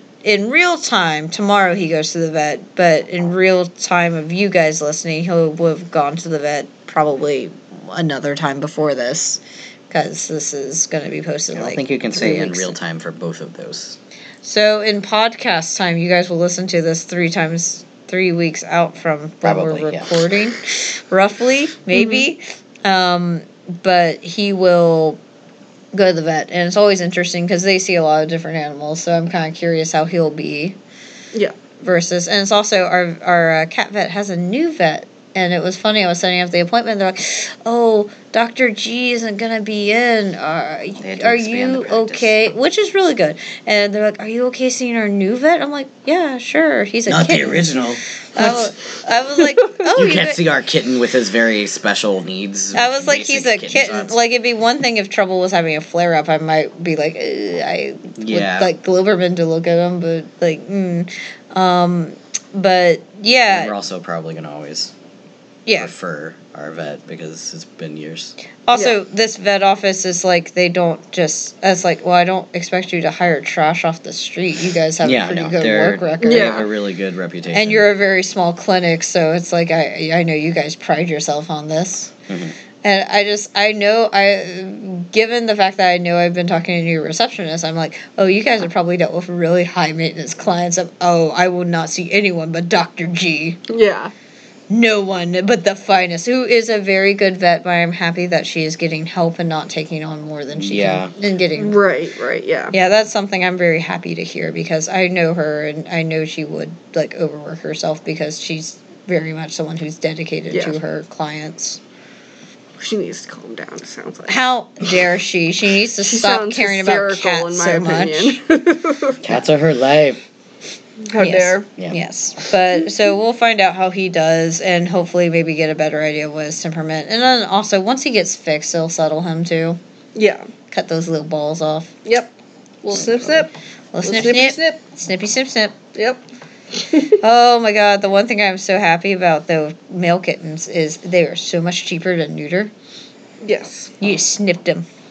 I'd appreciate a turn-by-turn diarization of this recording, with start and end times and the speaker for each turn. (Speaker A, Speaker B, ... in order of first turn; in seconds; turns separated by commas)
Speaker A: 0.2-12.7, Speaker B: 11.5-14.0, Speaker A: 14.4-25.2, Speaker B: 19.4-20.1, Speaker C: 21.9-22.2, Speaker A: 25.9-30.8, Speaker A: 31.8-47.8, Speaker B: 41.0-42.3, Speaker B: 47.1-48.6, Speaker A: 48.3-50.4, Speaker B: 49.9-54.2, Speaker A: 52.7-63.7, Speaker B: 58.2-58.7, Speaker B: 63.5-64.9, Speaker A: 65.7-65.9, Speaker B: 65.8-68.3, Speaker A: 68.7-76.6, Speaker B: 75.0-77.8, Speaker C: 76.2-76.7, Speaker A: 77.5-82.1, Speaker B: 82.3-82.5, Speaker A: 82.8-93.6, Speaker C: 93.7-94.1, Speaker A: 94.7-101.8, Speaker B: 100.5-101.1, Speaker C: 101.5-102.7, Speaker A: 102.7-111.8, Speaker C: 110.5-110.8, Speaker C: 112.8-114.4, Speaker A: 114.3-118.4, Speaker C: 116.0-119.2, Speaker B: 119.2-120.2, Speaker C: 121.1-121.7, Speaker A: 121.2-129.8, Speaker C: 130.1-130.5, Speaker A: 130.7-131.9, Speaker C: 132.0-132.3, Speaker C: 132.8-133.5, Speaker A: 133.9-135.8, Speaker C: 134.0-134.8, Speaker C: 135.9-136.2, Speaker C: 136.7-137.2, Speaker A: 137.2-142.7, Speaker C: 143.4-143.9, Speaker A: 144.0-144.8